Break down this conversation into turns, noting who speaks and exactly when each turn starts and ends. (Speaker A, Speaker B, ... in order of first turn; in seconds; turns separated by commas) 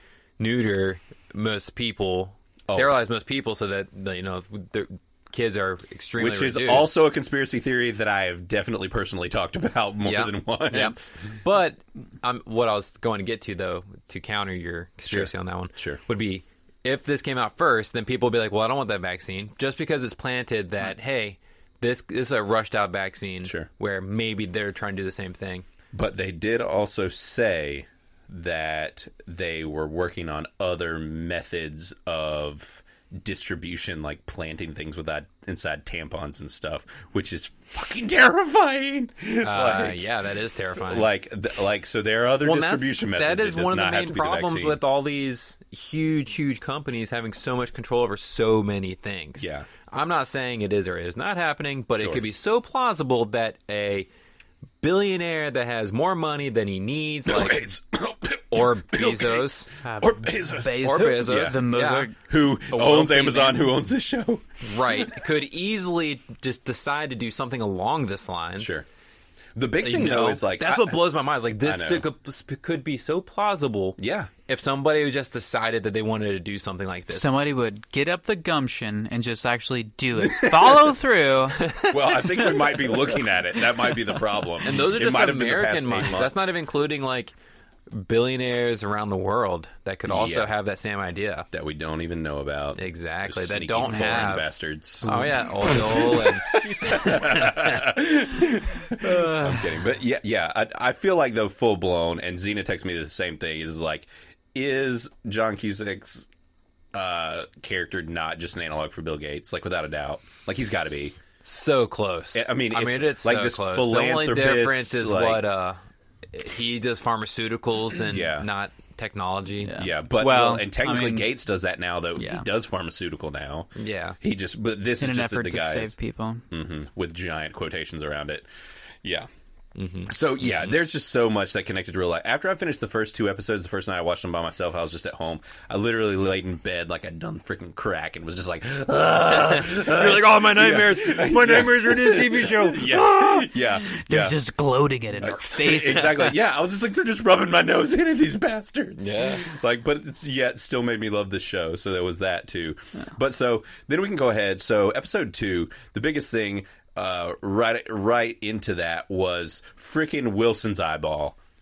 Speaker A: 0.4-7.0, Speaker B: 2.7-3.0, Speaker B: 6.2-11.1, Speaker A: 10.0-25.6, Speaker B: 15.1-16.0, Speaker B: 25.9-40.0, Speaker A: 39.4-41.1, Speaker B: 40.8-44.8, Speaker A: 42.4-54.1, Speaker B: 49.4-49.7, Speaker B: 52.0-52.2, Speaker A: 54.8-57.7, Speaker B: 57.2-61.6, Speaker A: 58.5-59.7, Speaker C: 59.8-63.7, Speaker A: 60.7-62.1, Speaker B: 62.2-65.2, Speaker A: 64.6-68.7, Speaker B: 68.6-68.8, Speaker B: 69.5-71.0, Speaker A: 69.8-77.4, Speaker B: 71.6-72.0, Speaker B: 74.0-74.3, Speaker C: 77.1-81.6, Speaker B: 80.2-80.8, Speaker A: 81.6-83.0, Speaker B: 81.9-86.5, Speaker A: 84.6-87.3, Speaker A: 87.9-91.5, Speaker B: 90.0-90.5, Speaker B: 91.5-106.3, Speaker A: 92.8-94.5, Speaker C: 93.8-94.4, Speaker C: 95.0-97.3, Speaker A: 95.0-97.8, Speaker C: 98.9-99.8, Speaker B: 106.9-111.2, Speaker A: 111.4-115.8, Speaker B: 112.3-115.4, Speaker A: 116.3-119.8, Speaker B: 118.1-118.5, Speaker C: 119.6-121.3, Speaker B: 119.8-126.0, Speaker C: 122.2-122.5, Speaker A: 123.8-124.2, Speaker C: 125.0-126.5, Speaker B: 126.5-128.4, Speaker B: 129.0-129.3, Speaker A: 129.8-130.1, Speaker B: 130.1-144.4, Speaker A: 139.3-143.5, Speaker C: 143.7-146.3, Speaker B: 145.2-161.4, Speaker A: 149.0-149.4